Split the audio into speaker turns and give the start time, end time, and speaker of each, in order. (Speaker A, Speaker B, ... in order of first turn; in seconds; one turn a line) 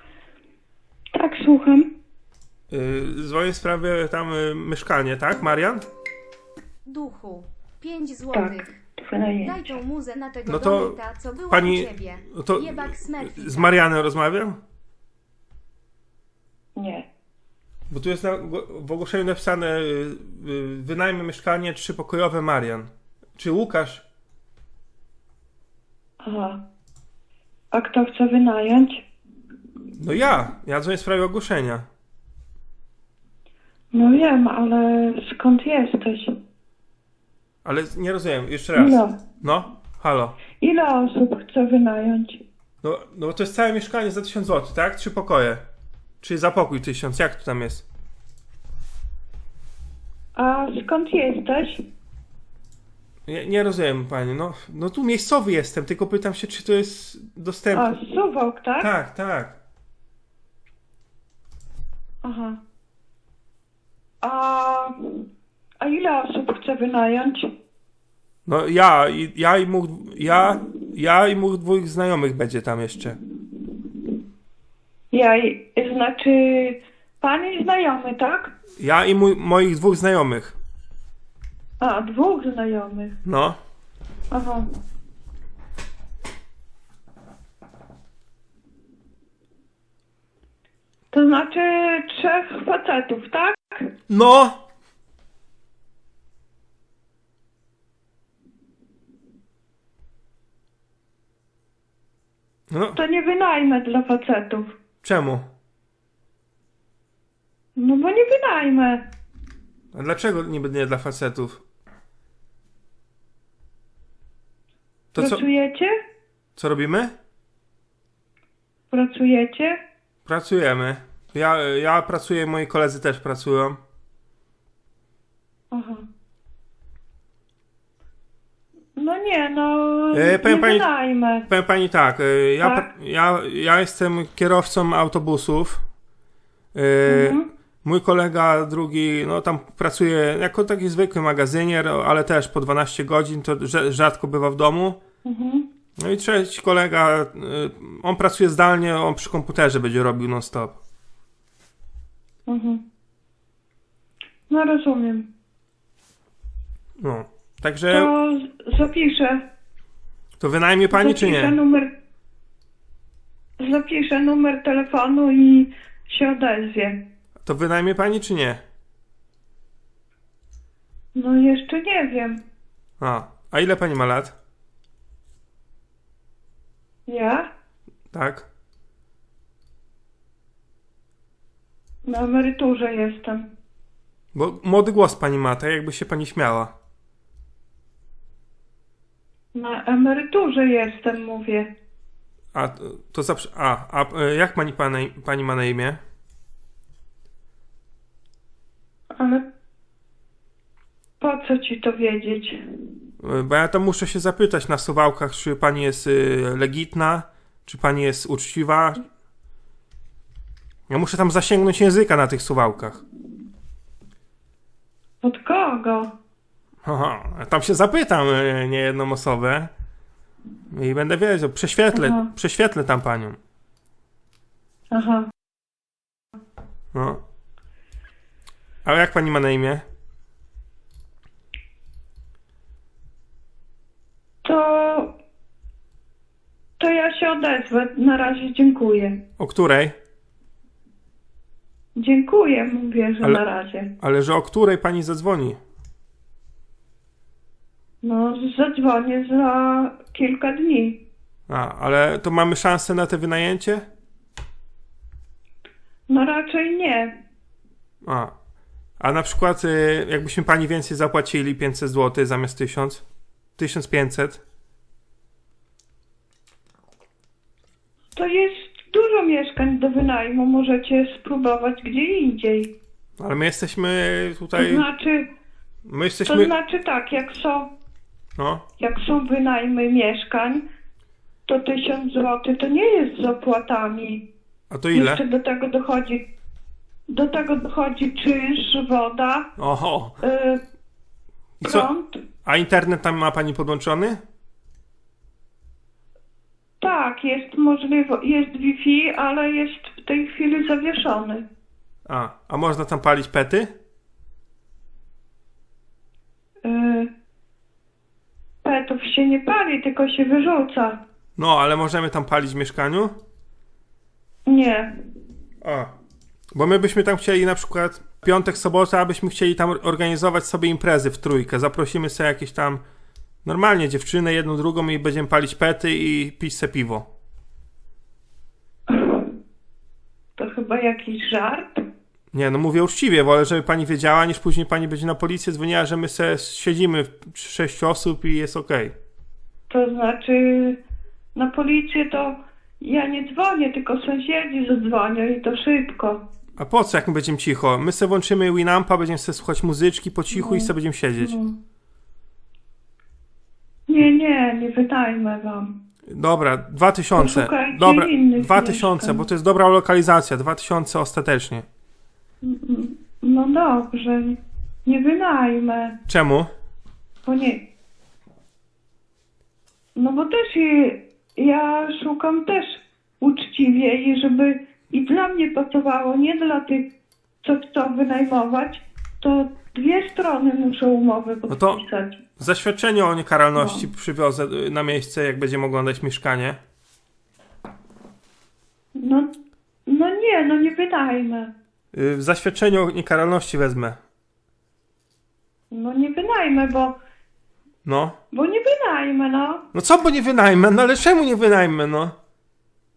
Speaker A: 1.2-1.9
Speaker B: 2.7-5.8
Speaker C: 6.8-8.8
Speaker A: 8.3-9.8
Speaker C: 9.4-13.8
Speaker B: 10.5-14.6
Speaker A: 16.8-17.1
Speaker B: 17.9-24.1
Speaker A: 26.2-26.6
Speaker A: 27.7-29.0
Speaker B: 29.9-31.9
Speaker A: 33.9-36.3
Speaker B: 37.6-40.4
Speaker A: 38.7-39.2
Speaker A: 40.6-42.4
Speaker B: 42.8-45.6
Speaker B: 46.2-47.9
Speaker A: 50.4-51.8
Speaker B: 53.3-58.0
Speaker A: 57.7-58.9
Speaker B: 58.8-59.6
Speaker A: 62.2-62.6
Speaker A: 64.2-65.2
Speaker A: 65.8-67.5
Speaker B: 68.5-73.2
Speaker A: 75.1-78.5
Speaker B: 78.8-80.6
Speaker A: 81.8-83.1
Speaker B: 83.2-83.6
Speaker A: 84.3-84.6
Speaker A: 91.1-93.9
Speaker B: 94.1-94.6
Speaker B: 102.7-103.0
Speaker A: 103.0-104.7
Speaker B: 105.0-105.5
Speaker A: 107.8-109.0
Speaker B: 109.9-111.6
Speaker B: 115.1-115.4
Speaker A: 115.2-115.9
Speaker B: 116.6-117.1
Speaker A: 118.9-119.8
Speaker B: 120.2-123.8
Speaker A: 125.7-126.0
Speaker A: 128.9-131.4
Speaker B: 130.1-130.9
Speaker B: 131.5-135.8
Speaker A: 132.6-132.9
Speaker B: 136.7-145.0
Speaker A: 137.1-137.4
Speaker A: 145.2-145.7
Speaker B: 146.0-150.8
Speaker A: 152.5-152.8
Speaker A: 154.5-155.2
Speaker B: 157.0-158.1
Speaker A: 157.9-159.4
Speaker B: 160.4-161.6
Speaker A: 160.9-161.9
Speaker A: 163.6-167.0
Speaker B: 167.4-168.6
Speaker A: 171.2-172.4
Speaker B: 173.0-174.3
Speaker A: 177.1-177.4
Speaker B: 178.1-178.5
Speaker A: 182.1-183.5
Speaker B: 184.3-186.7
Speaker A: 189.5-191.7
Speaker B: 192.5-196.0
Speaker A: 199.2-199.4
Speaker A: 201.2-202.6
Speaker B: 203.2-209.0
Speaker B: 210.9-213.0
Speaker A: 215.2-216.1
Speaker B: 216.8-219.7
Speaker B: 220.7-223.4
Speaker A: 221.9-222.3
Speaker A: 224.9-225.3
Speaker B: 226.9-227.2
Speaker B: 228.8-229.8
Speaker A: 234.4-235.1
Speaker A: 236.8-239.2
Speaker B: 239.4-239.9
Speaker A: 241.9-243.9
Speaker B: 244.0-245.6
Speaker A: 248.0-251.0
Speaker B: 251.5-253.9
Speaker A: 256.1-257.1
Speaker B: 258.0-258.3
Speaker B: 259.0-263.0
Speaker B: 263.6-264.4
Speaker A: 268.1-272.7
Speaker B: 273.2-274.9
Speaker A: 274.5-275.2
Speaker B: 275.9-276.5
Speaker A: 276.2-277.7
Speaker B: 278.4-278.6
Speaker A: 278.8-280.6
Speaker A: 281.5-284.2
Speaker B: 284.7-285.2
Speaker A: 284.9-286.2
Speaker A: 287.1-289.5
Speaker B: 289.6-290.2
Speaker A: 290.2-290.6
Speaker B: 291.6-291.9
Speaker A: 291.6-292.1
Speaker B: 292.4-294.2
Speaker A: 296.8-301.4
Speaker B: 302.1-303.7
Speaker A: 306.6-307.1
Speaker A: 308.6-311.0
Speaker B: 311.4-313.1
Speaker A: 314.5-314.9
Speaker B: 315.6-315.9
Speaker B: 316.5-322.8
Speaker B: 323.4-327.1
Speaker A: 328.9-329.3
Speaker A: 330.4-331.8
Speaker B: 332.3-338.9
Speaker A: 339.7-340.8
Speaker A: 341.3-346.2
Speaker B: 346.6-351.4
Speaker A: 350.3-351.5
Speaker A: 353.9-355.7
Speaker B: 356.1-361.6
Speaker A: 357.2-359.2
Speaker A: 362.4-366.0
Speaker B: 366.1-366.5
Speaker A: 367.2-367.6
Speaker A: 369.9-376.9
Speaker A: 377.4-382.2
Speaker B: 381.5-381.8
Speaker B: 382.4-386.6
Speaker A: 383.5-383.9
Speaker A: 389.0-389.3
Speaker A: 389.9-391.5
Speaker B: 391.9-394.0
Speaker A: 395.7-396.9
Speaker B: 397.8-398.1
Speaker A: 398.3-399.6
Speaker B: 399.7-402.1